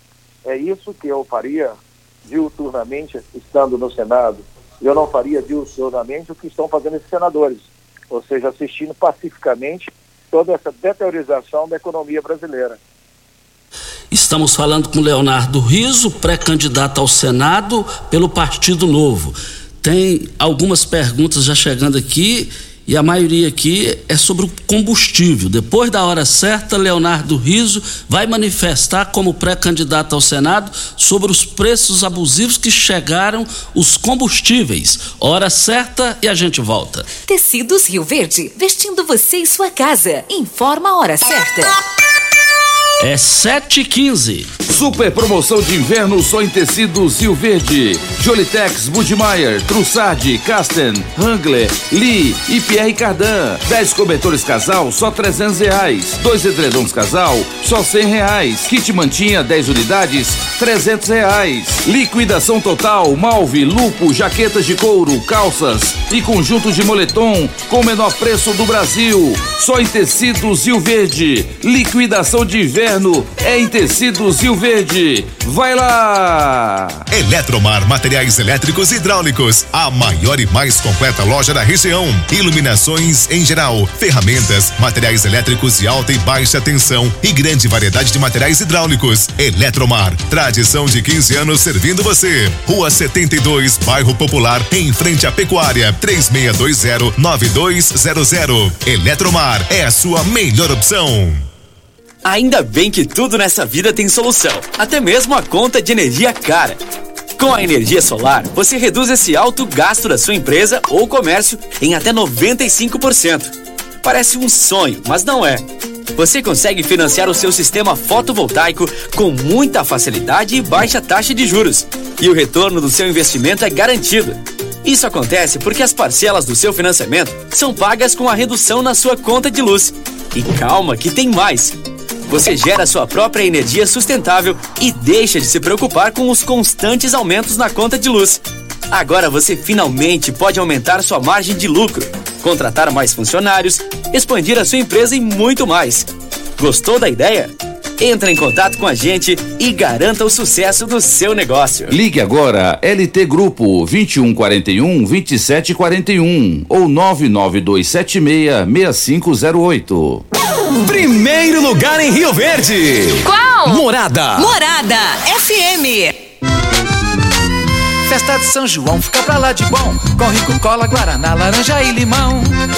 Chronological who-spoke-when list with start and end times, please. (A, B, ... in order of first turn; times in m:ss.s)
0:00.4-0:12.8 A
0:14.1-0:37.1 B
0:37.3-0:41.8 C
0:43.0-0:44.5 B
0:44.7-1:17.0 D
1:17.1-1:41.4 E
1:42.2-1:46.8 F
1:47.4-1:55.6 F
1:56.2-2:11.8 F
2:12.3-2:31.9 F
2:31.9-2:40.2 D
2:40.8-2:44.5 G
2:43.2-2:43.8 H
2:44.4-2:46.1 H
2:48.0-2:52.6 I